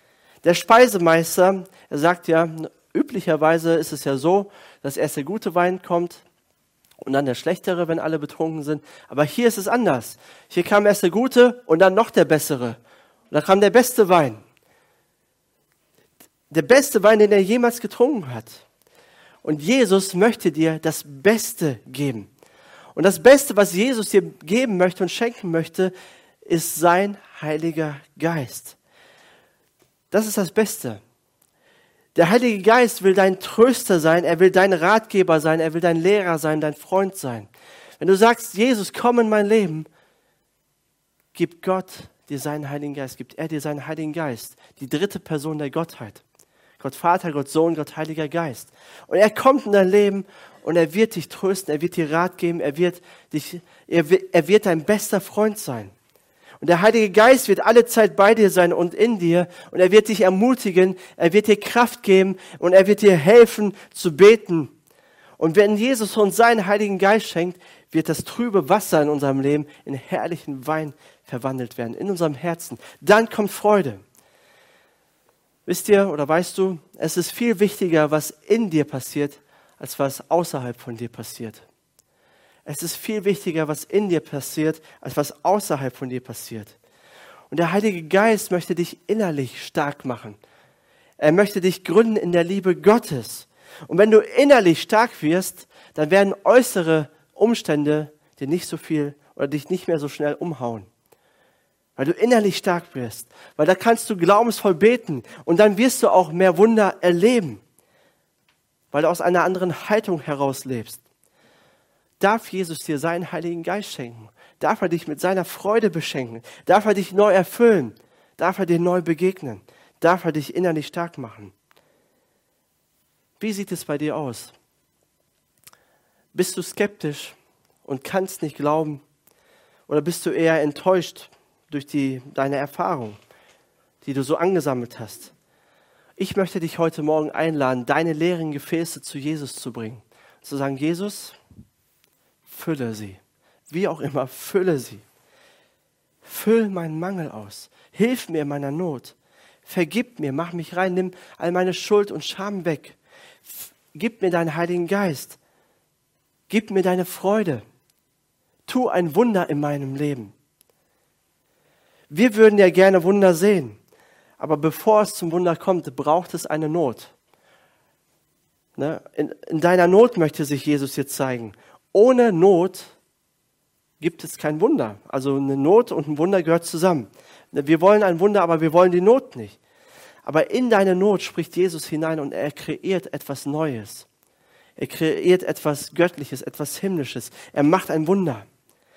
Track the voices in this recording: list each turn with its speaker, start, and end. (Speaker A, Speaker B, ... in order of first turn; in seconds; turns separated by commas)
Speaker A: 0.4-6.2, Speaker A: 7.0-12.8, Speaker A: 13.3-14.4, Speaker A: 16.5-18.6, Speaker A: 19.4-22.3, Speaker A: 22.9-25.9, Speaker A: 26.4-28.8, Speaker A: 30.1-31.0, Speaker A: 32.1-37.5, Speaker A: 38.0-39.9, Speaker A: 41.3-46.2, Speaker A: 46.8-55.9, Speaker A: 56.6-64.7, Speaker A: 65.4-74.0, Speaker A: 75.7-81.6, Speaker A: 82.7-86.8, Speaker A: 87.5-90.4, Speaker A: 91.2-100.9, Speaker A: 102.0-107.6, Speaker A: 108.9-111.0, Speaker A: 112.2-121.5, Speaker A: 123.4-124.5, Speaker A: 126.3-129.0, Speaker A: 129.9-133.2, Speaker A: 134.0-135.3, Speaker A: 136.2-141.3, Speaker A: 142.5-145.0, Speaker A: 146.2-155.4, Speaker A: 156.5-157.6, Speaker A: 158.7-160.3, Speaker A: 162.1-163.8, Speaker A: 164.4-167.1, Speaker A: 168.8-172.9, Speaker A: 174.0-179.6, Speaker A: 180.2-184.1, Speaker A: 184.8-188.4